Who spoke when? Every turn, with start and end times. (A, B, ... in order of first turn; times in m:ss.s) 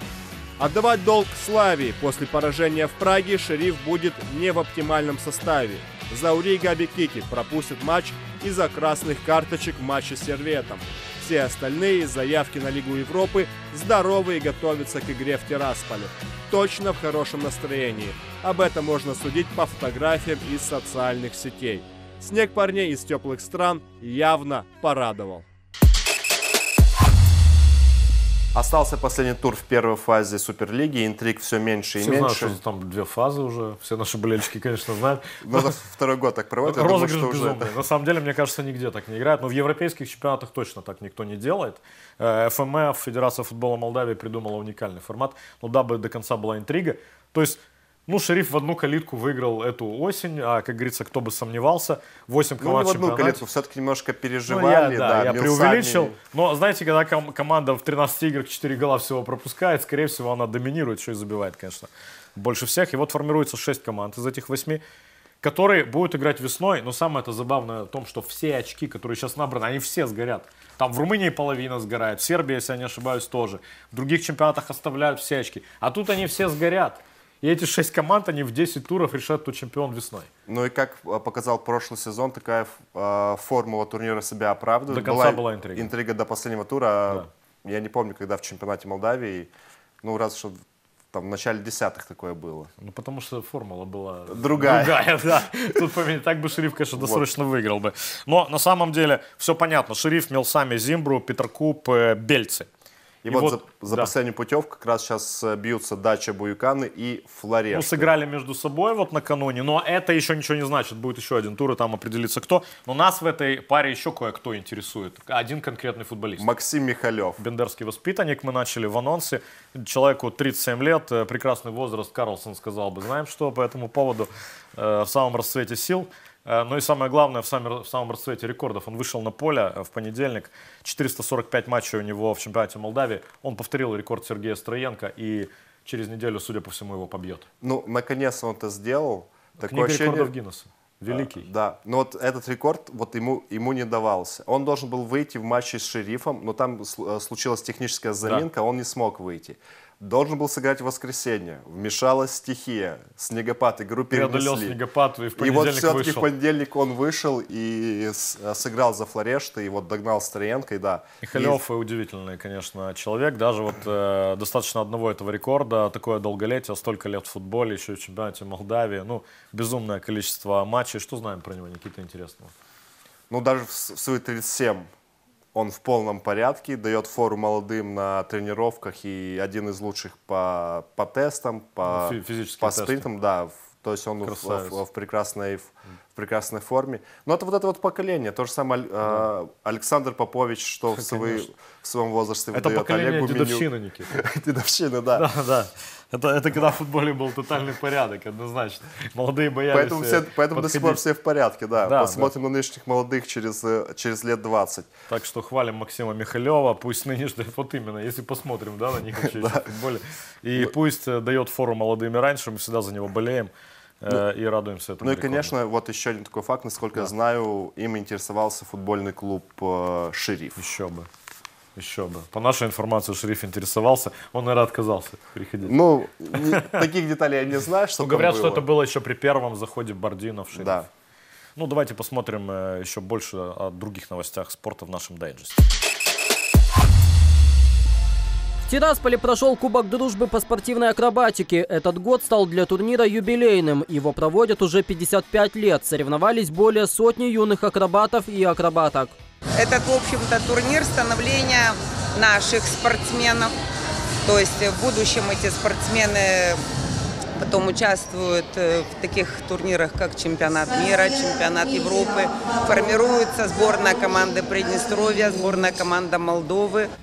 0:00.6-0:25.4 A
0:28.5-0:32.6 B
0:32.0-0:35.8 C
0:35.4-0:37.7 B
0:36.6-0:53.4 C
0:52.6-0:56.2 B
0:54.5-1:04.8 C
1:05.4-1:20.3 C
1:20.4-1:29.5 B
1:24.9-1:25.9 C
1:30.0-1:30.6 B
1:31.1-1:32.7 B
1:32.8-1:42.7 C
1:34.3-1:35.1 B
1:36.9-1:37.3 B
1:43.2-1:48.1 B
1:43.2-1:44.1 C
1:47.7-1:56.5 C
1:56.4-1:57.4 B
1:57.4-2:17.5 C
2:17.6-2:20.3 B
2:19.6-2:21.5 C
2:21.1-2:34.8 B
2:34.1-2:36.3 C
2:35.4-2:41.6 B
2:41.2-2:52.5 C
2:53.3-2:54.9 B
2:55.5-3:15.3 B
3:01.8-3:03.1 C
3:04.2-3:04.8 C
3:10.9-3:11.4 C
3:12.5-3:14.1 C
3:15.1-3:21.0 C
3:19.7-3:24.9 B
3:21.8-3:22.3 C
3:25.1-3:33.5 C
3:29.2-3:29.7 B
3:34.0-3:35.5 C
3:35.0-3:40.6 B
3:40.6-3:41.1 C
3:41.8-3:45.8 C
3:45.6-3:48.6 B
3:46.3-3:46.8 C
3:48.0-3:50.9 C
3:50.5-3:50.9 B
3:51.6-3:55.6 C
3:58.6-4:09.1 D
4:09.6-4:13.5 E
4:14.2-4:16.6 E
4:17.4-4:26.9 E